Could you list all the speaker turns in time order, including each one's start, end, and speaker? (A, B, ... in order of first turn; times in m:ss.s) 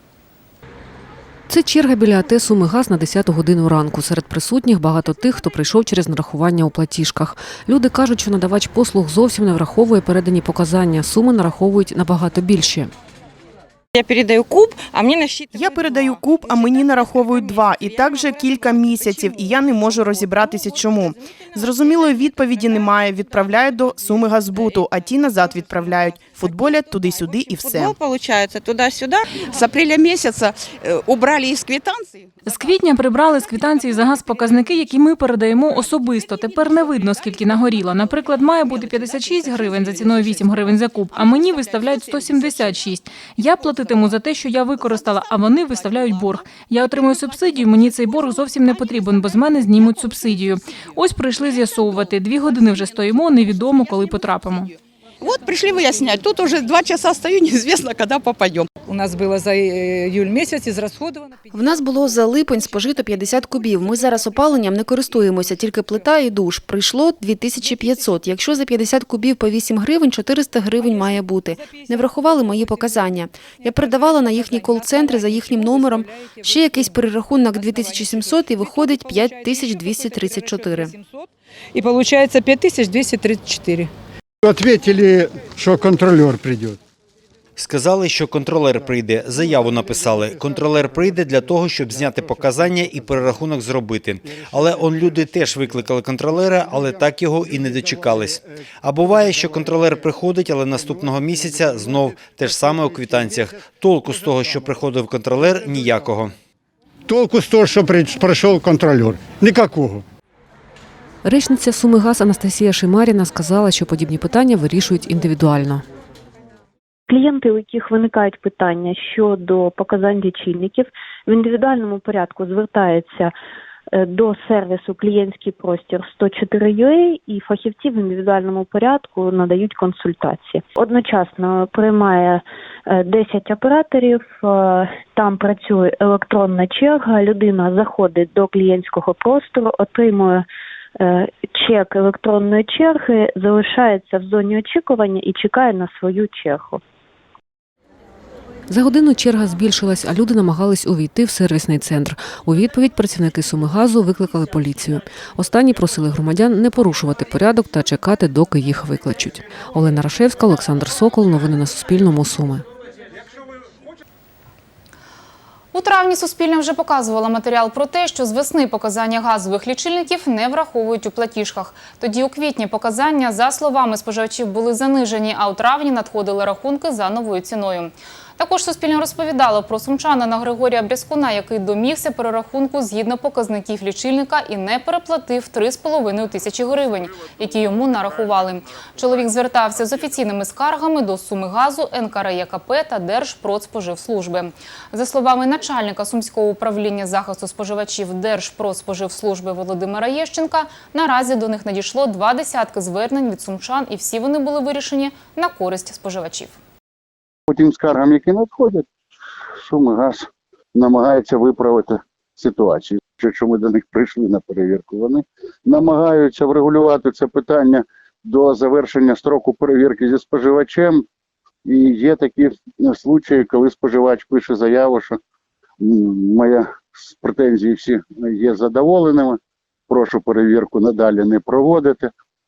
0:01.5-0:12.9 A
0:13.9-0:15.5 B
0:15.5-0:28.0 C
0:27.6-0:32.2 B
0:32.4-0:54.7 D
0:55.2-0:58.7 B
0:58.8-1:01.4 E
1:01.5-1:21.0 F
1:07.8-1:08.0 E
1:10.8-1:23.9 E
1:24.4-1:26.7 G
1:27.6-1:46.3 H
1:47.1-1:50.0 G
1:51.2-1:55.8 A
1:57.1-2:03.3 I
2:03.9-2:20.4 I
2:21.0-2:26.8 I
2:28.7-2:42.6 A
2:45.7-3:26.6 J
3:27.5-3:28.8 K
3:29.6-3:41.0 K
3:41.6-3:45.2 K
3:45.8-3:49.4 K
3:49.9-3:52.1 K